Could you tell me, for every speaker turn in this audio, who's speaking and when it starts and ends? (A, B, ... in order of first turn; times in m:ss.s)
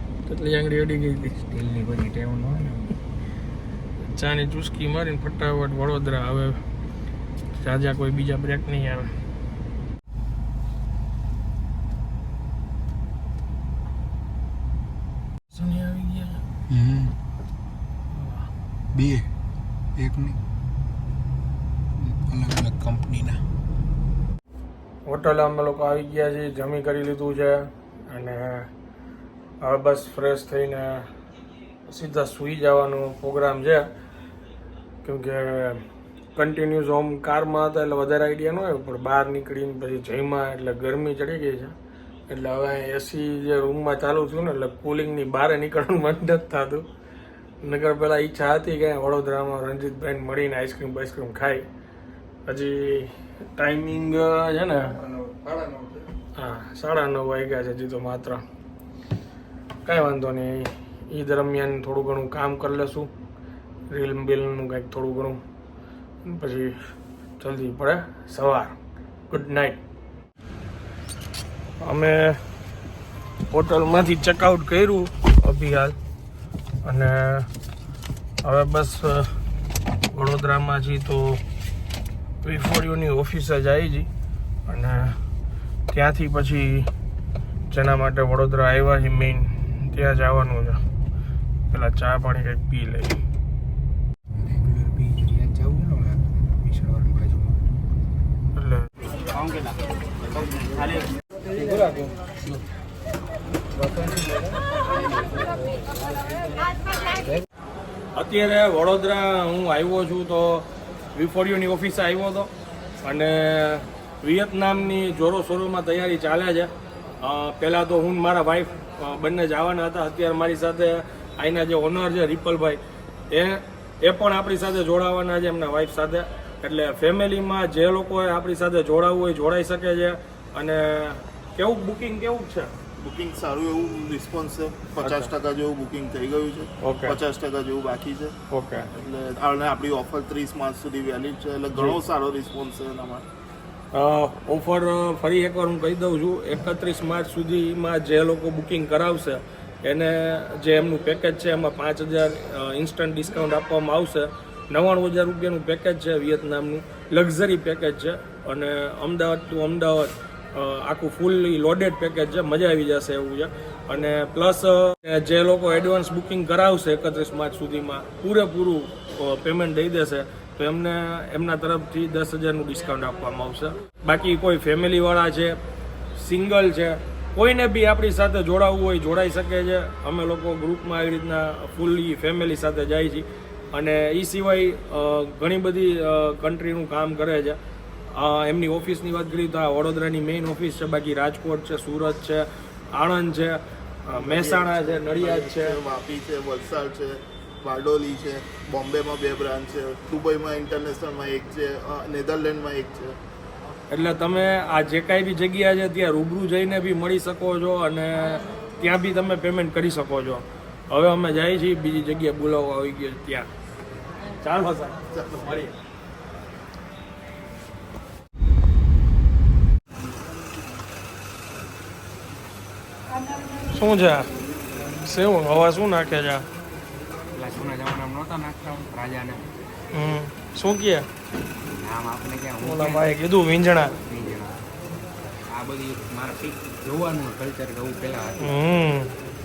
0:00.2-0:01.4 A
0:01.4-0:03.0 B
0:04.0-0:06.6 A
0:07.5-0:09.1 A
0:15.5-0:16.4 A
0:18.1-0:18.5 A
0:20.0-0:20.4 B
0:22.0-0:23.4 B
0:25.0-0:28.7 A
0:29.6-0:31.1 A
0:31.9-0:33.9 A
0:35.0-0:35.8 A
0:36.3-0:41.7 A
0:42.3-0:46.8 A
0:47.6-0:51.6 A
0:52.5-0:54.9 A
0:55.1-0:55.9 B
0:56.4-0:58.4 A
0:59.8-1:03.1 A
1:03.9-1:05.4 A
1:06.2-1:06.8 A
1:07.4-1:08.8 A
1:09.3-1:09.8 A
1:11.8-1:12.4 A
1:13.5-1:16.0 A
1:16.8-1:17.5 A
1:18.4-1:19.4 A
1:20.1-1:21.4 A
1:22.4-1:24.1 A
1:24.7-1:25.2 A
1:25.9-1:26.9 A
1:27.7-1:30.8 A
1:31.7-1:33.2 A
1:34.4-1:37.6 B
1:38.5-1:38.9 A
1:39.3-1:39.8 B
1:40.3-1:41.1 B
1:41.7-1:42.6 B
1:48.1-1:52.5 A
1:53.0-1:56.7 A
1:57.2-2:12.7 A
2:13.0-2:18.3 C
2:15.0-2:15.3 A
2:16.8-2:17.2 A
2:18.5-2:18.9 A
2:18.9-2:23.2 C
2:23.9-2:55.6 A
2:56.1-3:07.6 A
3:08.1-3:15.7 A
3:14.1-3:23.1 C
3:23.9-3:33.5 A
3:34.3-3:35.0 A
3:35.1-3:35.6 C
3:43.7-3:44.3 A
3:45.0-3:46.4 A
3:47.3-3:49.5 B
3:49.9-3:51.1 A
3:51.8-3:53.1 B
3:52.6-3:54.0 A
3:54.0-3:54.6 B
3:55.5-3:58.5 B
3:58.4-3:59.1 A